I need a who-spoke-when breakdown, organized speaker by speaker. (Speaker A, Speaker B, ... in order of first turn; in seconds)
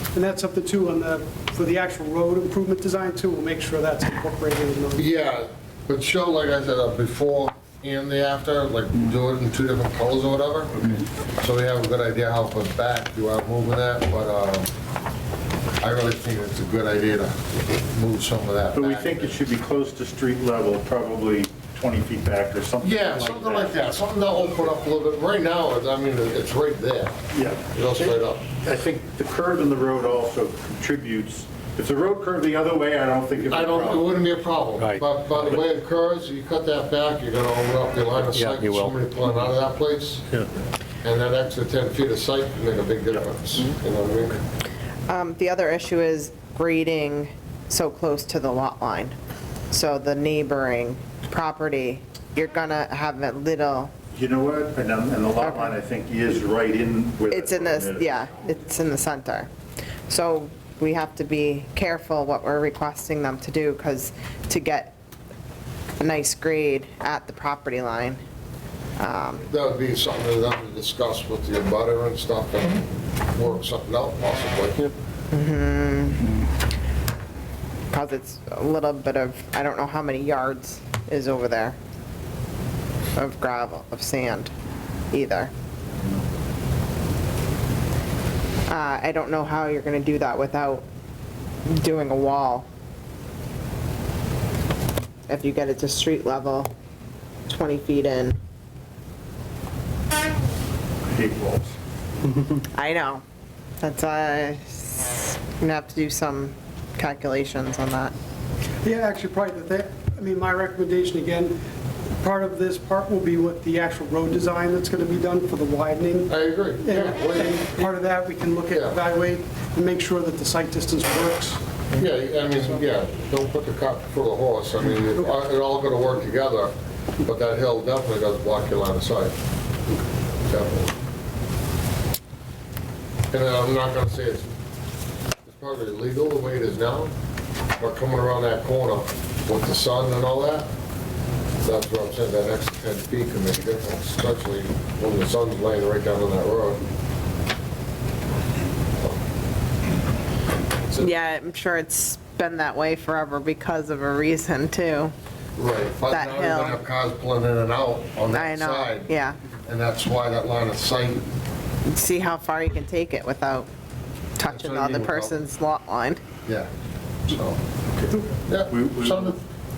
Speaker A: 0.1-5.1, 108.8-111.6, 112.2-121.6
Speaker B: 5.0-14.7, 15.8-19.4, 22.8-27.2, 27.7-28.5, 33.5-40.3, 41.0-44.4, 69.5-74.9, 116.3-117.9, 118.7-119.0, 122.0-129.3, 130.5-130.9, 133.3-134.5, 135.5-137.1, 137.8-140.7, 141.6-146.8, 155.6-159.1, 159.7-161.3, 164.5-165.4, 167.3-167.6, 168.5-169.4
Speaker C: 18.7-23.8, 27.3-34.1, 34.8-35.6, 38.3-38.9, 54.1-58.2, 101.1-101.8, 167.9-169.4
Speaker D: 45.1-49.2, 49.7-53.9, 55.4-55.7, 57.3-59.5, 60.1-65.0, 66.0-68.2, 69.0-69.5, 75.3-76.4, 77.9-81.8, 83.2-84.5, 85.1-85.5, 88.7-90.9, 91.7-92.7, 95.3-96.7, 97.5-98.4, 102.7-103.2, 103.8-108.1, 151.0-155.1, 156.1-156.8, 158.3-159.4, 161.9-163.7, 164.4-166.2